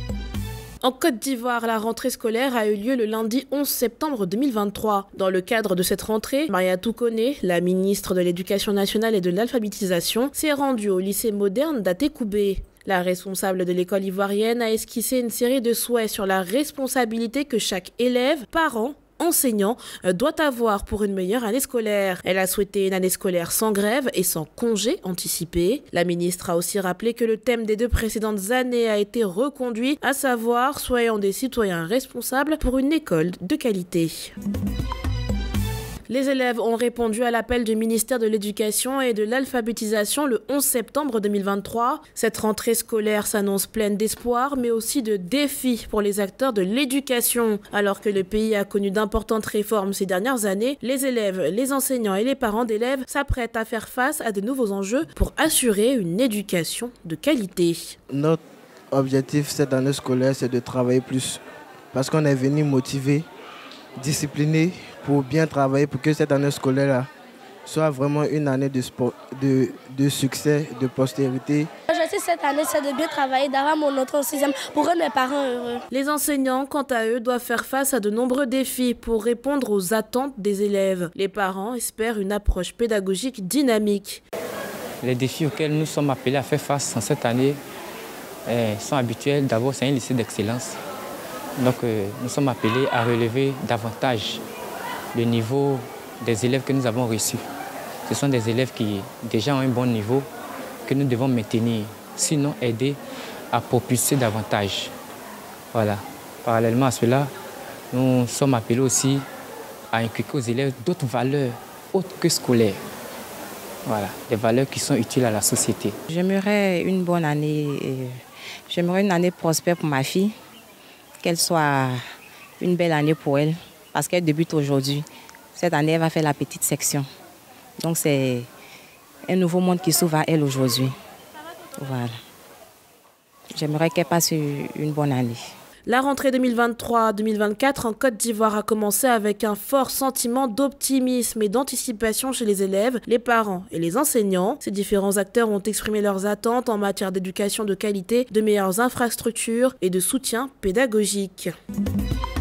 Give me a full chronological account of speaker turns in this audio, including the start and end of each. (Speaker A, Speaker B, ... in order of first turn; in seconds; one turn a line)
Speaker A: 0.8-34.3
Speaker A: 36.1-58.0
Speaker B: 58.1-63.3
Speaker B: 64.0-67.1
Speaker B: 67.7-71.7
Speaker C: 71.9-75.8
Speaker A: 75.9-84.2
Speaker D: 85.0-87.6
Speaker D: 88.5-90.8
Speaker D: 91.6-94.4
Speaker D: 95.1-97.4
Speaker D: 98.1-100.3
Speaker D: 100.9-103.0
Speaker D: 103.5-104.9
Speaker D: 105.7-107.3
Speaker D: 107.9-109.2
Speaker D: 109.9-112.8
Speaker D: 113.9-116.0
Speaker E: 116.1-118.1
Speaker E: 118.7-120.3
Speaker E: 121.2-122.0
Speaker E: 122.6-127.0
Speaker E: 127.8-128.5
Speaker E: 129.3-130.9
Speaker E: 131.8-132.1
Speaker E: 133.6-135.4
Speaker A: 135.8-151.5